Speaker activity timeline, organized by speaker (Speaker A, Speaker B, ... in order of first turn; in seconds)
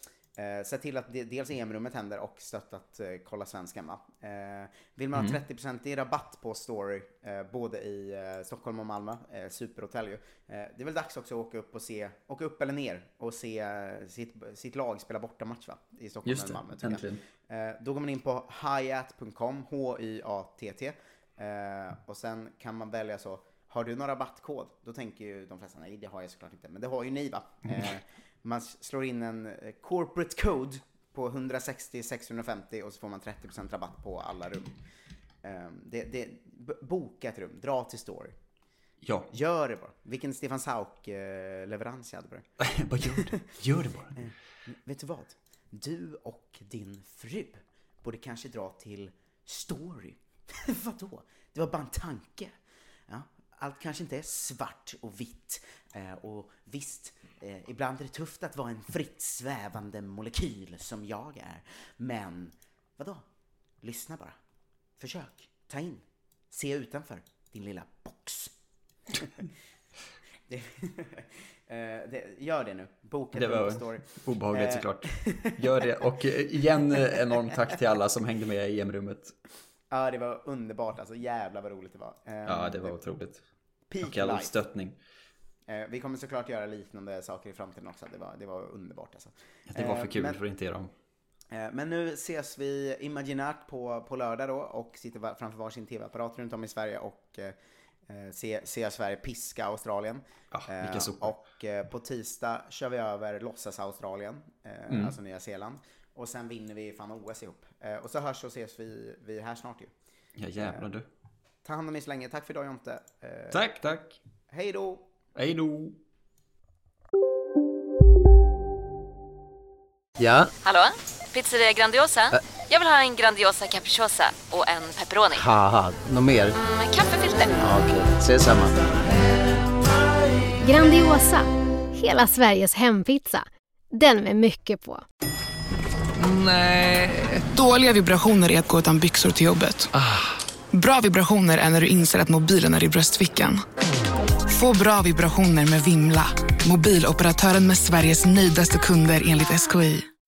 Speaker A: 0.4-34.7, 35.4-38.4, 39.3-42.5, 44.2-52.6, 53.1-63.2, 63.8-64.4, 65.0-68.5, 70.5-76.0, 79.9-83.0, 83.9-84.6, 85.7-90.4, 91.5-97.5, 98.1-109.9, 110.6-110.9, 111.6-113.6, 114.5-115.0
Speaker B: 16.2-17.2, 39.0-39.3, 42.6-44.2, 73.3-79.3, 82.5-83.4, 84.0-85.0, 89.7-90.9, 100.5-101.3, 104.9-105.1, 110.4-111.1, 113.5-114.2, 115.3-116.0
Speaker C: 120.6-125.5, 126.6-127.7
Speaker D: 125.4-126.5, 127.6-128.7
Speaker E: 130.6-135.0
Speaker F: 136.2-139.9, 140.7-143.6, 144.5-150.1